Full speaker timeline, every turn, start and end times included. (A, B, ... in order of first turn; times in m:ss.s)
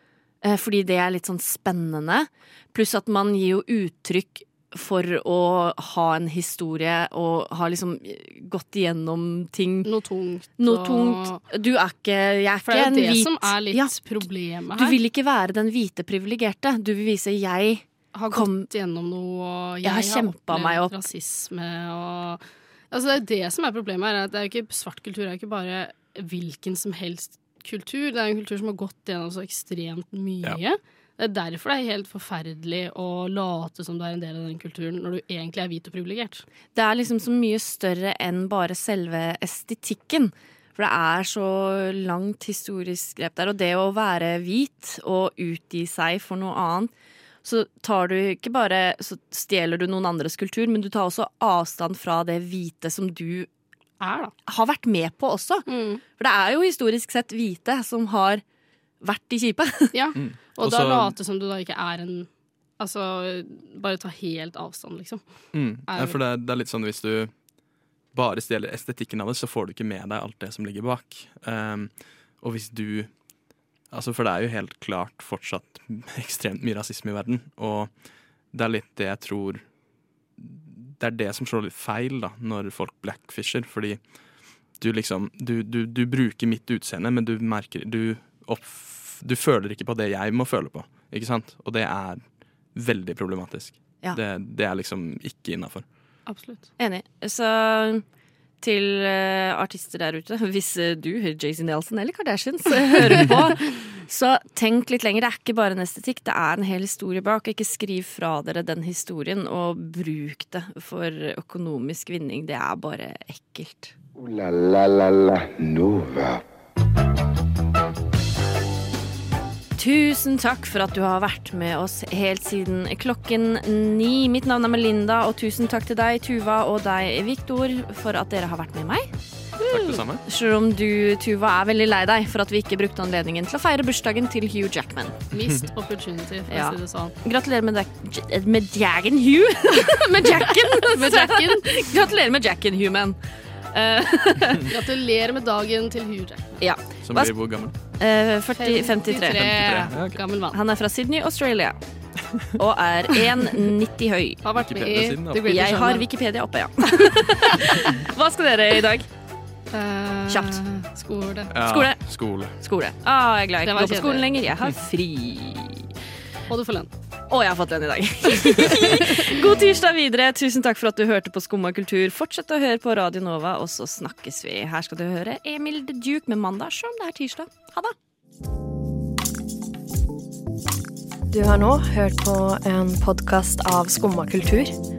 0:00.4-0:09.9 A
0:09.8-0:11.4 B
0:10.6-0:14.1 A
0:12.6-0:15.0 B
0:14.7-0:18.7 A
0:18.2-0:36.4 B
0:19.8-0:21.0 A
0:36.8-0:46.9 A
0:47.4-0:53.5 A
0:54.0-0:54.3 B
0:54.5-0:58.4 A
0:55.7-0:56.0 B
0:59.0-1:00.0 A
0:59.9-1:05.2 B
1:00.2-1:01.2 C
1:05.5-1:07.3 C
1:05.9-1:06.2 B
1:08.1-1:13.1 C
1:13.9-1:17.9 C
1:18.5-1:19.6 C
1:20.4-1:24.0 C
1:24.8-1:32.2 C
1:32.7-1:35.8 C
1:36.3-1:36.7 B
1:36.8-1:38.0 A
1:38.6-1:53.9 A
1:54.2-1:56.4 D
1:59.8-2:09.1 A
2:09.6-2:10.2 C
2:09.7-2:15.2 A
2:15.3-2:17.2 B
2:16.5-2:23.2 A
2:19.9-2:21.8 B
2:23.7-2:24.8 A
2:24.7-2:26.6 B
2:26.6-2:27.3 A
2:27.0-2:27.8 C
2:28.0-2:29.5 A
2:28.6-2:30.6 B
2:29.4-2:30.2 C
2:30.5-2:31.8 A
2:32.6-2:34.4 A
2:34.4-2:36.1 B
2:34.5-2:35.6 C
2:35.4-2:39.1 A
2:37.4-2:37.9 B
2:39.7-2:41.5 B
2:40.3-2:40.6 A
2:41.5-2:42.6 C
2:41.6-2:42.0 A
2:42.6-2:45.9 A
2:43.6-2:44.3 B
2:46.5-2:46.9 B
2:47.3-2:58.0 A
2:48.5-2:49.4 B
3:01.3-3:04.7 E
3:03.1-3:03.7 D